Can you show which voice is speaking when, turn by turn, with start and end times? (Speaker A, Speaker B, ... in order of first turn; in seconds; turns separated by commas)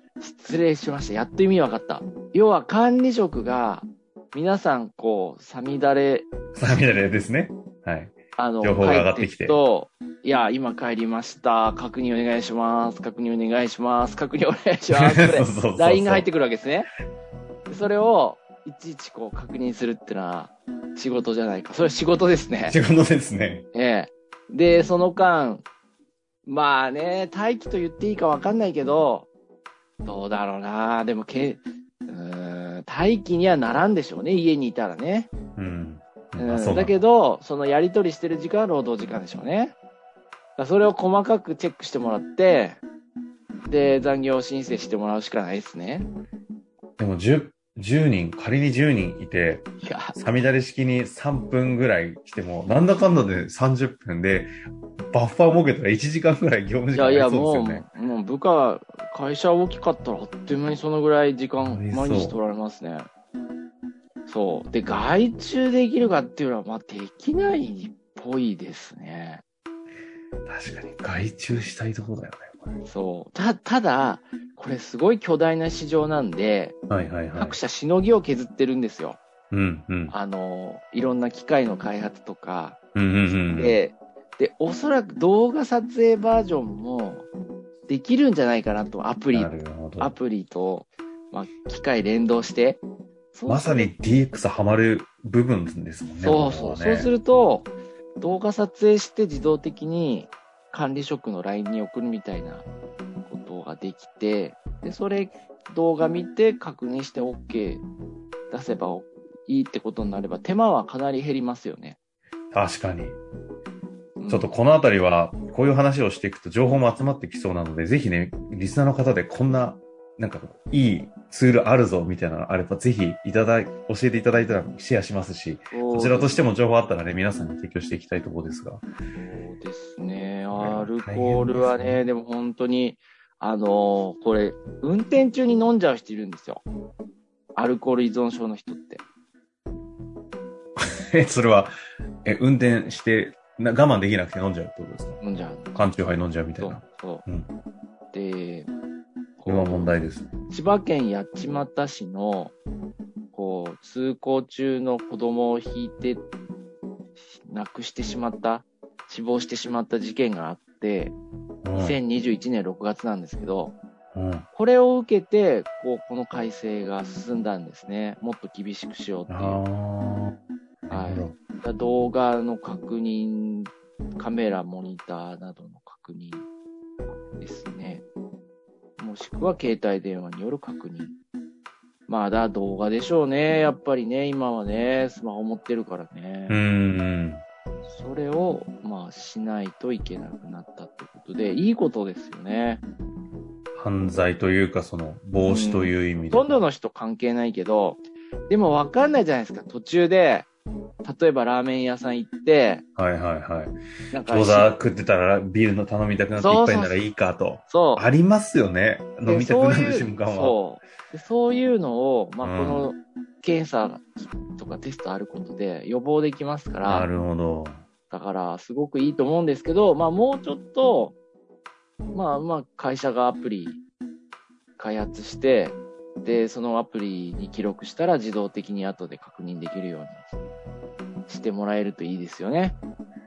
Speaker A: 0.2-6.3, Speaker B: 6.5-9.6, Speaker A: 8.4-16.9, Speaker B: 14.9-16.3, Speaker A: 17.7-22.8, Speaker B: 22.7-23.7, Speaker A: 23.7-25.6, Speaker A: 26.4-29.3, Speaker A: 30.0-35.3, Speaker B: 35.6-37.0, Speaker A: 36.4-39.8, Speaker A: 40.6-42.8, Speaker A: 43.7-46.1, Speaker B: 47.0-54.5, Speaker A: 49.8-50.1, Speaker B: 55.1-57.9, Speaker A: 56.9-63.1, Speaker B: 61.6-62.4, Speaker A: 64.3-69.4, Speaker B: 70.5-72.7, Speaker A: 72.8-76.8, Speaker B: 76.9-77.6, Speaker A: 77.4-79.2, Speaker B: 79.5-80.2, Speaker A: 80.1-87.3, Speaker B: 83.0-83.8, Speaker A: 87.9-92.8, Speaker B: 89.3-90.1, Speaker A: 93.3-93.9, Speaker B: 93.5-97.1, Speaker A: 96.2-102.7, Speaker A: 103.2-107.8, Speaker A: 108.5-112.0, Speaker B: 112.5-113.2, Speaker A: 114.2-114.5, Speaker B: 114.3-128.8, Speaker A: 125.7-126.4, Speaker A: 129.2-136.6, Speaker B: 130.5-132.0, Speaker A: 137.6-139.0, Speaker B: 140.8-141.7, Speaker B: 142.2-145.2, Speaker A: 145.2-145.8, Speaker B: 145.8-147.5, Speaker A: 146.6-147.2, Speaker A: 148.1-148.7, Speaker A: 149.4-149.9, Speaker B: 149.5-150.3, Speaker A: 150.5-152.6, Speaker A: 153.3-156.2, Speaker A: 157.4-161.2, Speaker B: 161.6-162.0, Speaker A: 161.8-163.8, Speaker B: 164.1-164.5, Speaker A: 164.5-169.6, Speaker B: 169.3-171.3, Speaker A: 170.9-176.4, Speaker A: 177.4-178.1, Speaker A: 179.0-181.1, Speaker A: 182.1-186.6, Speaker B: 186.5-187.4, Speaker A: 187.9-192.8, Speaker B: 193.8-196.6, Speaker A: 195.4-200.5, Speaker A: 201.0-202.8, Speaker B: 203.0-210.6, Speaker A: 204.1-204.7, Speaker A: 206.4-207.0, Speaker A: 207.7-208.1, Speaker A: 209.3-217.1, Speaker B: 212.4-212.9, Speaker B: 216.8-217.8, Speaker A: 218.1-221.2, Speaker A: 222.1-223.8, Speaker A: 224.8-230.2, Speaker A: 231.3-232.8